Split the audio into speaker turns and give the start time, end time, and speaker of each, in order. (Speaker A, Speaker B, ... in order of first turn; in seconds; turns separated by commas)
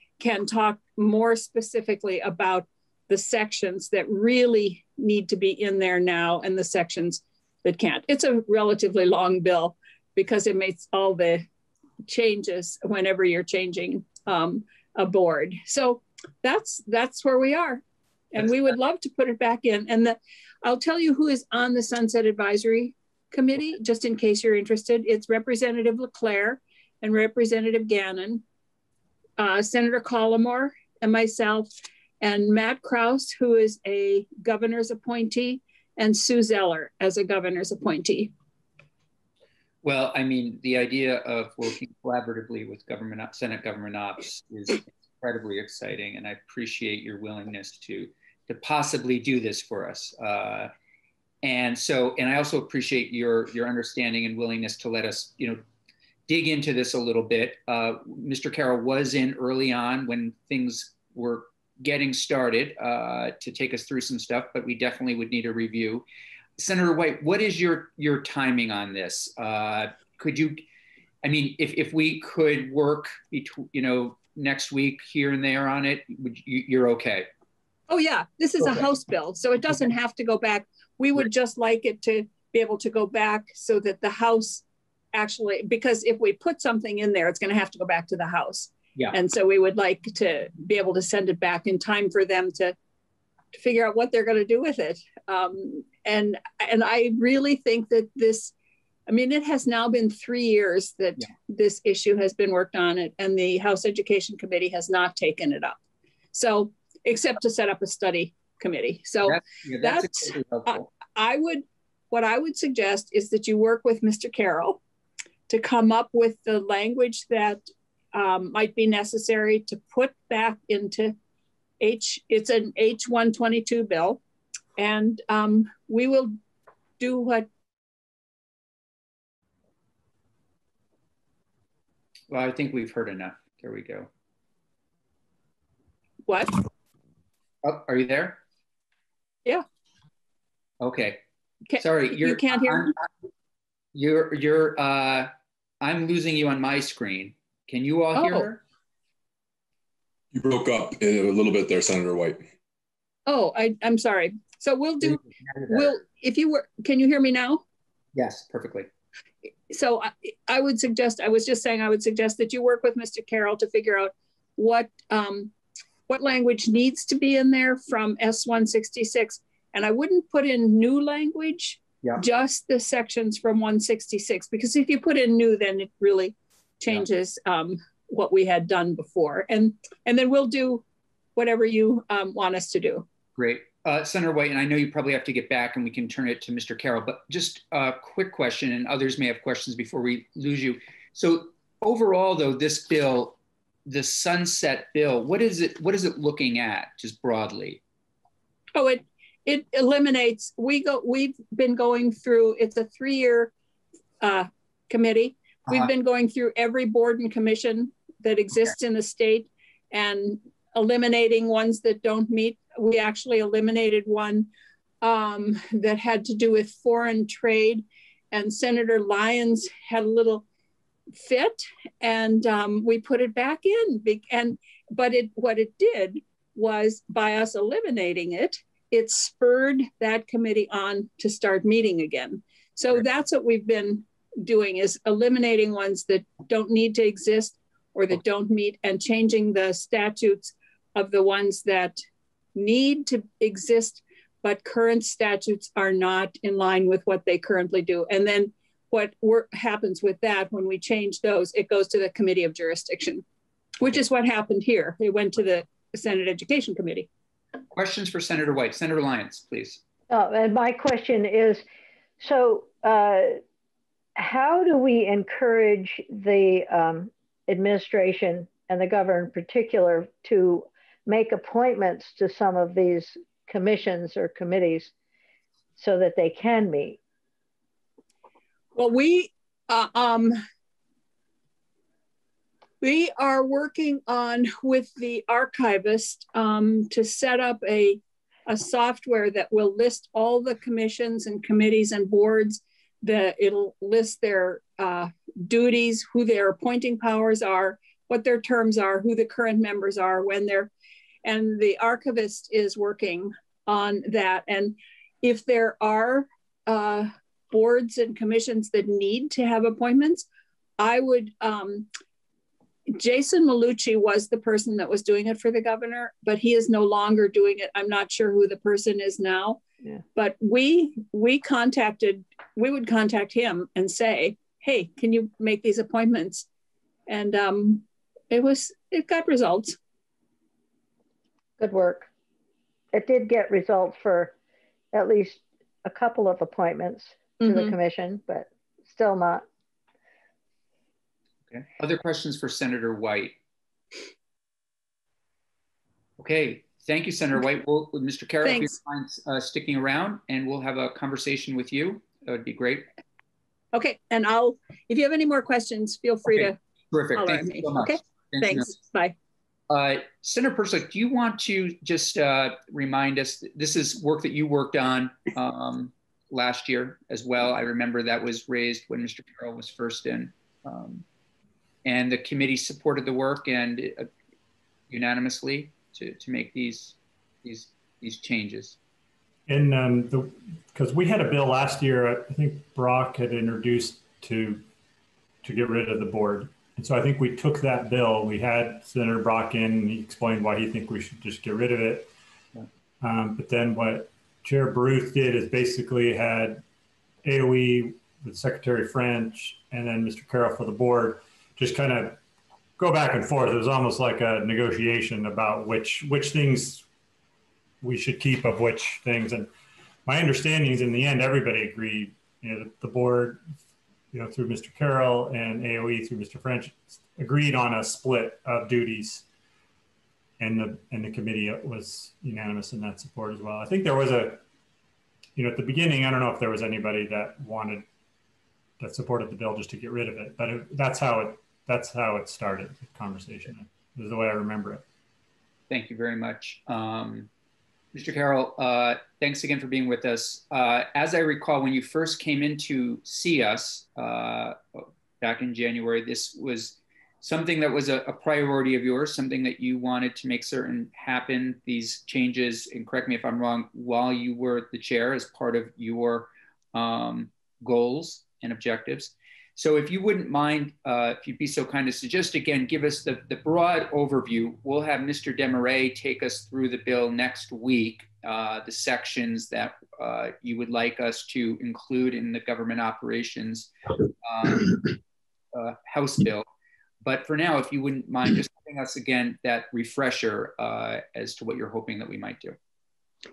Speaker A: 0.2-11.4, Speaker A: 12.1-28.4, Speaker A: 29.4-31.7, Speaker A: 32.2-38.3, Speaker B: 39.8-50.7, Speaker B: 51.4-55.6, Speaker B: 56.3-66.1, Speaker B: 66.6-70.6, Speaker B: 71.2-77.3, Speaker A: 77.9-92.8, Speaker A: 93.5-98.5, Speaker A: 99.1-105.8, Speaker A: 106.3-114.8, Speaker B: 109.2-110.8, Speaker A: 115.5-121.2, Speaker A: 121.8-124.2, Speaker A: 124.8-126.3, Speaker A: 127.0-127.5, Speaker B: 132.3-134.1, Speaker A: 136.3-136.6, Speaker B: 137.6-138.4, Speaker B: 140.8-141.2, Speaker A: 141.7-142.9, Speaker B: 141.8-143.0, Speaker B: 143.9-145.3, Speaker B: 145.8-148.6, Speaker A: 148.2-148.5, Speaker C: 150.3-152.4, Speaker A: 153.3-157.6, Speaker B: 155.0-155.9, Speaker B: 158.1-158.9, Speaker A: 159.7-165.5, Speaker A: 166.1-180.8, Speaker A: 181.3-183.1, Speaker B: 183.4-197.8, Speaker A: 198.7-203.5, Speaker A: 204.2-214.5, Speaker A: 215.0-220.4, Speaker A: 221.2-242.0, Speaker A: 242.5-253.2, Speaker A: 253.8-257.1, Speaker B: 257.7-259.8, Speaker D: 260.1-261.6, Speaker D: 262.2-263.4, Speaker D: 264.1-274.9, Speaker D: 275.8-277.0, Speaker A: 278.7-280.3, Speaker A: 282.8-300.7, Speaker A: 301.2-310.2, Speaker A: 310.8-311.9, Speaker A: 312.9-319.6, Speaker A: 320.1-326.4, Speaker A: 327.1-329.8, Speaker D: 331.6-332.1, Speaker D: 332.9-334.3, Speaker D: 334.9-339.4, Speaker A: 337.4-337.8, Speaker B: 341.5-343.4, Speaker B: 346.2-352.9, Speaker A: 348.4-348.7, Speaker A: 353.7-356.6, Speaker B: 356.3-358.7, Speaker A: 357.1-359.1, Speaker B: 359.7-371.0, Speaker B: 371.8-374.1, Speaker B: 374.9-378.8, Speaker E: 379.5-384.6, Speaker E: 385.4-392.1, Speaker E: 393.0-396.6, Speaker E: 397.2-402.2, Speaker E: 402.8-406.9, Speaker E: 407.8-409.5, Speaker E: 410.1-413.4, Speaker E: 414.1-419.2, Speaker E: 420.4-424.4, Speaker E: 425.4-427.9, Speaker E: 428.8-434.8, Speaker B: 435.7-437.3, Speaker B: 437.9-474.8, Speaker B: 475.5-476.4, Speaker B: 477.0-482.6